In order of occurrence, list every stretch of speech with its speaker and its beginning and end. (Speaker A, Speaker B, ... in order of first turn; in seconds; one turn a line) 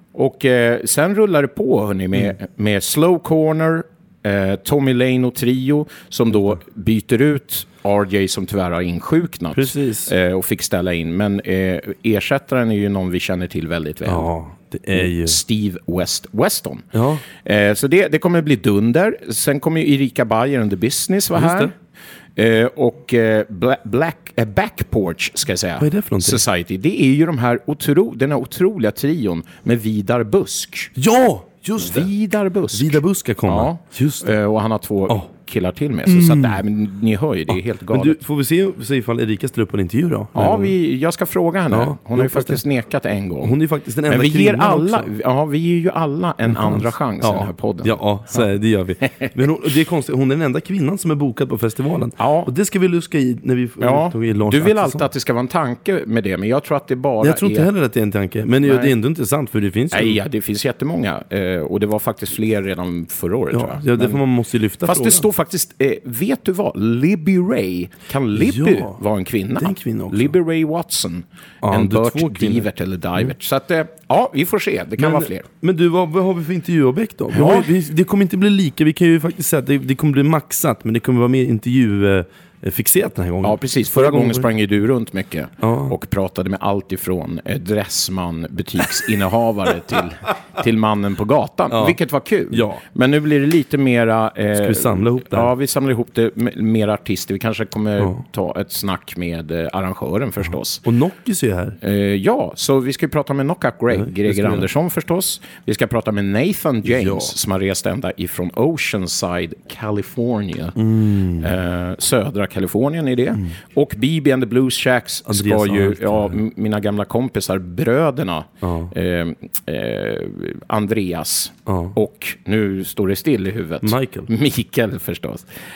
Speaker A: 0.1-14.3
Speaker B: 9.5-10.1
Speaker B: 14.1-15.4
Speaker A: 14.9-16.9
Speaker B: 16.9-17.2
Speaker A: 17.4-21.7
Speaker B: 21.4-21.7
Speaker A: 22.4-30.9
Speaker B: 25.8-26.4
Speaker B: 31.0-32.1
Speaker A: 31.8-38.2
Speaker B: 32.7-34.3
Speaker B: 36.1-36.6
Speaker B: 37.9-40.8
Speaker A: 40.3-48.5
Speaker B: 41.7-42.6
Speaker B: 43.4-45.1
Speaker B: 46.5-55.1
Speaker A: 49.0-49.5
Speaker A: 52.2-52.5
Speaker A: 53.8-57.7
Speaker B: 57.2-60.2
Speaker A: 58.6-59.0
Speaker A: 59.9-64.2
Speaker B: 63.5-65.3
Speaker A: 64.8-75.5
Speaker B: 68.3-69.0
Speaker B: 69.6-70.3
Speaker B: 71.6-73.3
Speaker B: 75.0-84.5
Speaker A: 77.3-77.7
Speaker A: 83.4-100.8
Speaker B: 85.6-85.9
Speaker B: 91.7-92.0
Speaker B: 92.5-92.8
Speaker B: 94.6-95.5
Speaker B: 100.8-101.8
Speaker A: 101.8-125.5
Speaker B: 103.9-104.7
Speaker B: 106.8-107.3
Speaker B: 110.8-111.5
Speaker B: 115.3-116.4
Speaker B: 118.6-118.9
Speaker B: 121.7-121.9
Speaker B: 123.8-124.3